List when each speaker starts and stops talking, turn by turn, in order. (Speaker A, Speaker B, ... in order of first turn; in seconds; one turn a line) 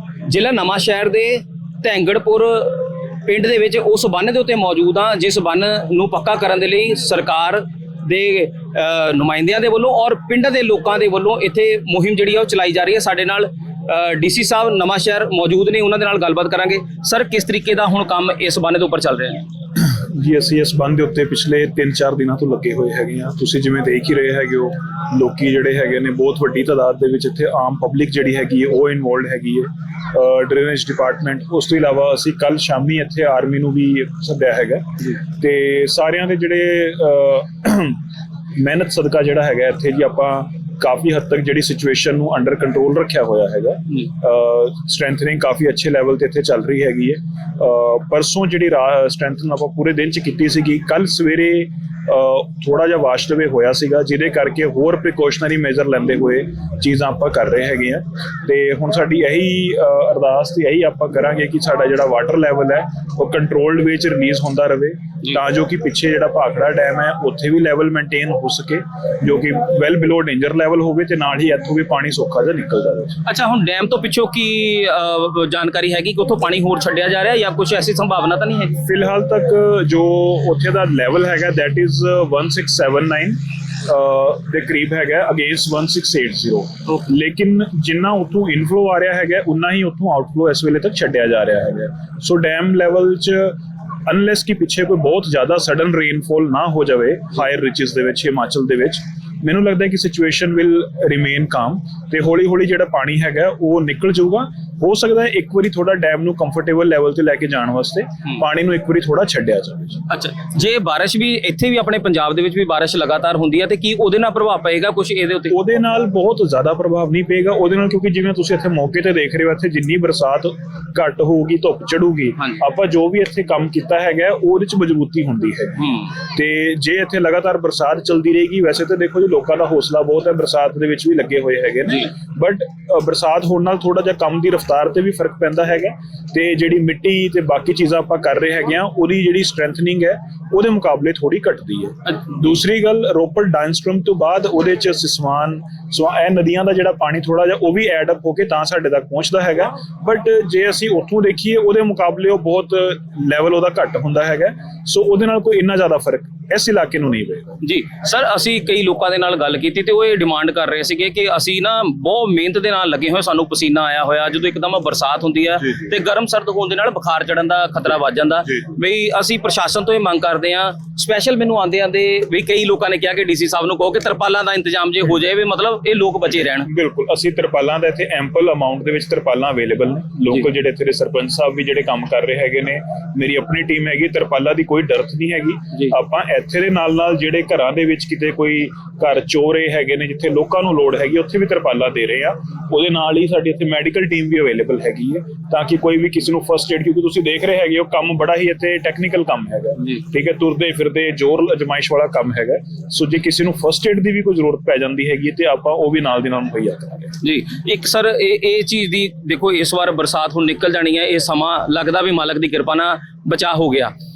Speaker A: 0.3-19.5
Speaker B: 19.8-38.0
Speaker B: 38.6-73.2
Speaker A: 73.2-78.8
Speaker B: 78.8-110.0
Speaker A: 110.1-115.6
Speaker B: 115.5-157.6
Speaker A: 157.6-176.7
Speaker B: 176.7-207.1
Speaker A: 207.2-213.9